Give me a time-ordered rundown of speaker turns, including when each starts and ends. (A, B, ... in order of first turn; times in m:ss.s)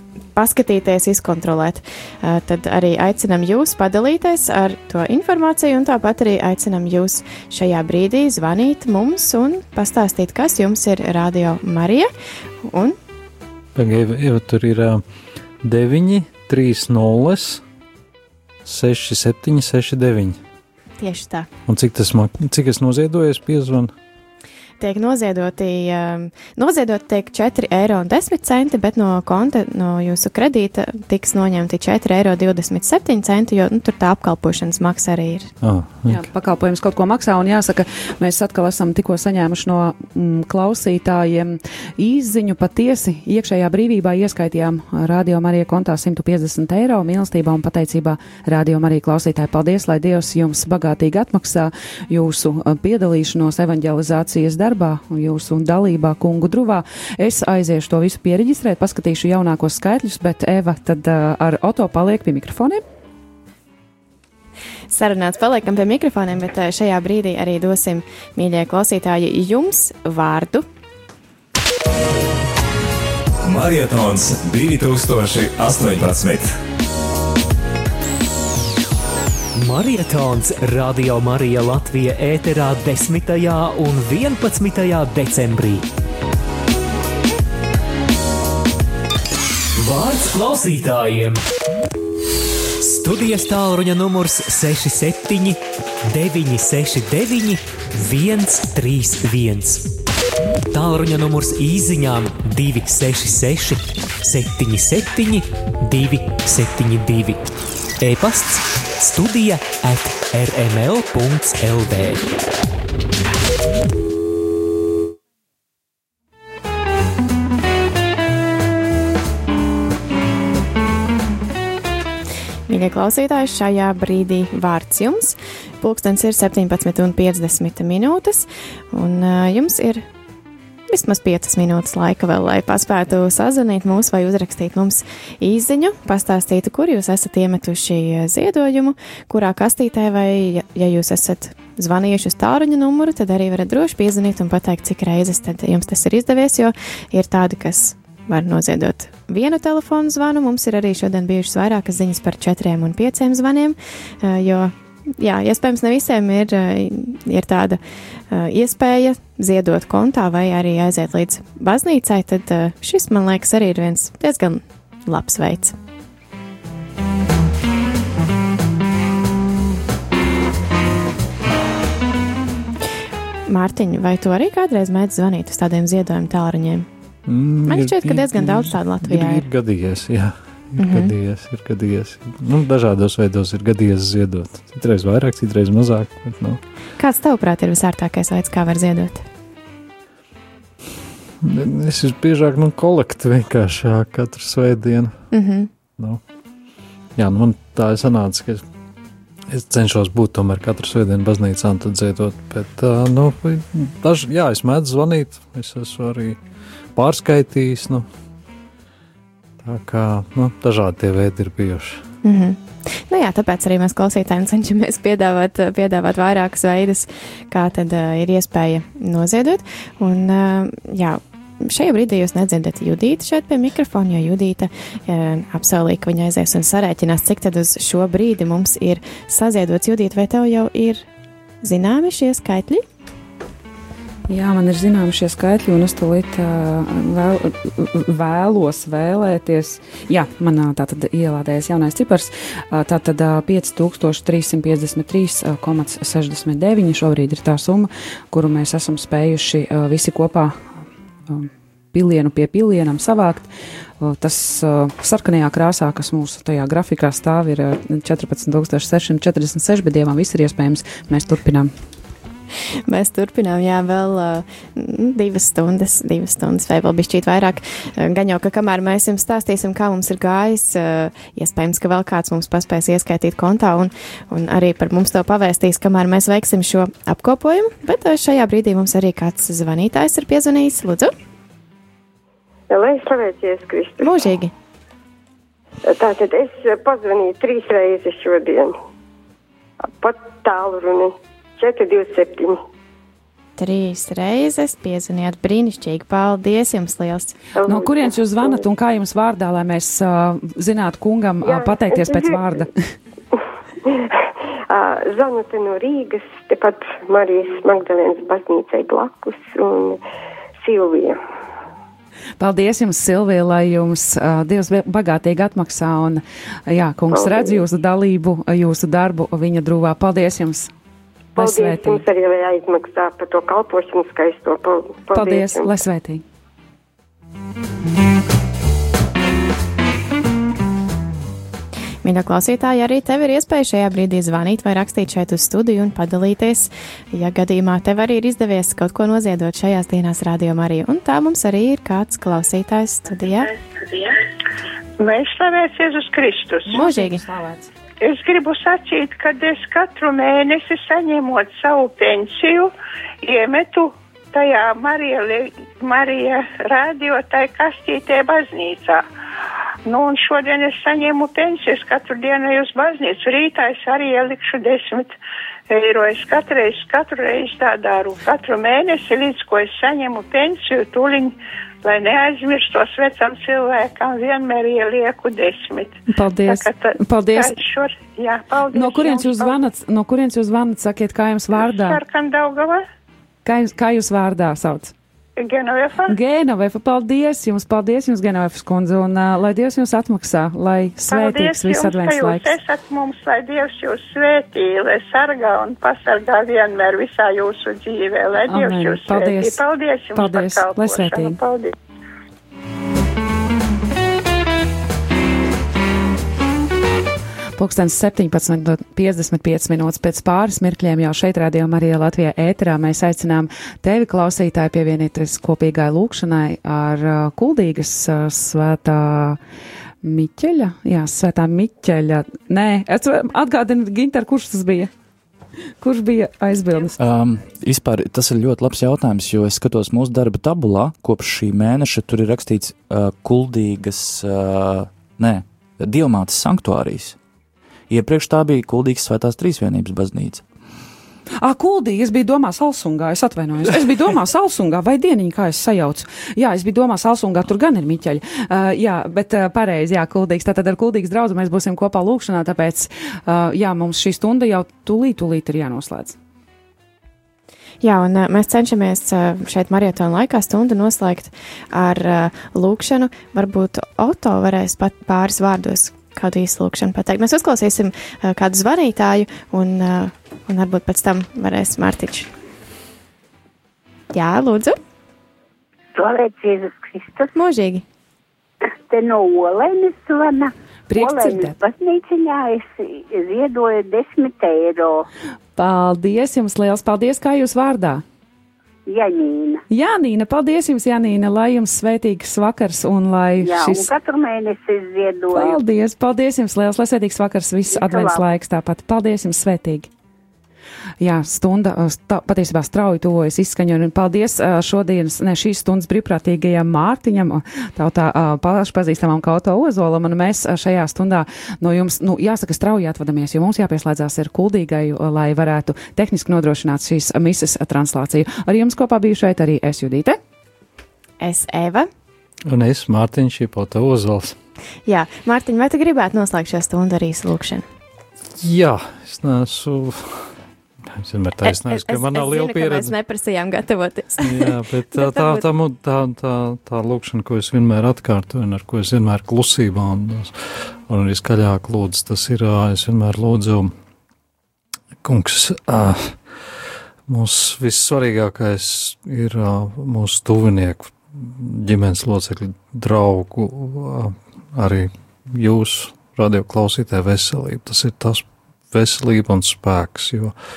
0:00.4-0:12.1 A
0:12.6-0:13.0 A
0:13.8-0:15.0 B
0:15.6-0:17.6 B
0:18.6-0:20.4 B
0:21.0-0:21.5 A
0:21.7-0:23.9 B
0:24.8-0:35.5 A
0:35.6-0:36.3 B
0:36.1-1:02.8 C
1:04.9-1:10.6 A
1:13.4-1:16.6 D
1:19.6-1:25.8 E
1:29.8-1:31.4 E
1:32.8-1:39.8 E
1:40.7-1:47.4 E
1:48.0-1:52.3 E
2:02.7-2:10.0 A
2:10.9-2:37.8 A
2:38.3-2:45.8 A
2:53.5-2:56.9 A
2:57.3-3:06.6 B
2:57.7-2:59.4 A
3:00.8-3:01.1 A
3:07.0-3:09.2 A
3:11.4-3:15.2 B
3:15.3-3:15.7 A
3:17.2-3:18.6 B
3:19.5-3:26.4 B
3:27.0-3:28.1 B
3:29.6-3:32.0 B
3:32.2-3:51.0 A
3:51.6-3:52.8 A
3:54.3-4:13.5 C
4:14.0-4:21.7 C
4:22.9-4:41.1 A
4:42.7-4:44.3 F
4:44.0-4:44.5 A
4:45.8-4:48.7 F
4:50.0-4:52.6 F
4:53.6-4:57.4 A
4:57.6-4:58.6 F
4:57.6-5:02.9 C
5:01.4-5:02.4 F
5:04.7-5:10.0 F
5:10.6-5:11.2 F
5:12.4-5:20.7 C
5:17.1-5:17.6 F
5:21.4-5:22.1 C
5:21.4-5:25.7 F
5:25.1-5:26.2 C
5:32.0-5:43.5 A
5:43.5-5:44.2 G
5:45.0-5:46.8 G
5:46.7-5:47.7 C
5:46.7-5:47.2 A
5:48.0-5:52.7 G
5:53.2-5:59.0 G
5:59.9-6:05.1 G
6:05.7-6:19.6 G
6:16.1-6:17.6 C
6:18.7-6:22.0 C
6:21.6-6:22.8 G
6:23.4-6:24.9 C
6:25.4-6:26.2 G
6:26.1-6:32.6 C
6:31.1-6:41.7 G
6:38.4-6:39.6 C
6:40.2-6:41.4 C
6:47.6-6:59.4 C
7:00.0-7:04.9 C
7:05.8-7:07.0 C
7:07.0-7:17.2 H
7:17.9-7:20.4 H
7:21.4-7:36.2 C
7:37.8-7:52.3 A
7:54.1-7:54.8 A
7:56.0-7:57.3 I
7:57.3-7:57.8 A
7:58.9-8:05.1 I
8:00.9-8:01.6 C
8:05.6-8:08.0 C
8:08.9-8:09.6 I
8:09.7-8:13.9 C
8:13.4-8:15.6 I
8:15.3-8:19.9 C
8:17.7-8:18.4 I
8:21.0-8:40.2 C
8:41.2-8:41.9 A
8:42.5-8:44.4 B
8:44.9-8:47.6 A
8:48.4-8:50.4 B
8:50.9-8:52.9 B
8:51.4-8:55.5 A
8:54.2-9:03.7 B
9:05.0-9:06.2 B
9:07.1-9:20.4 B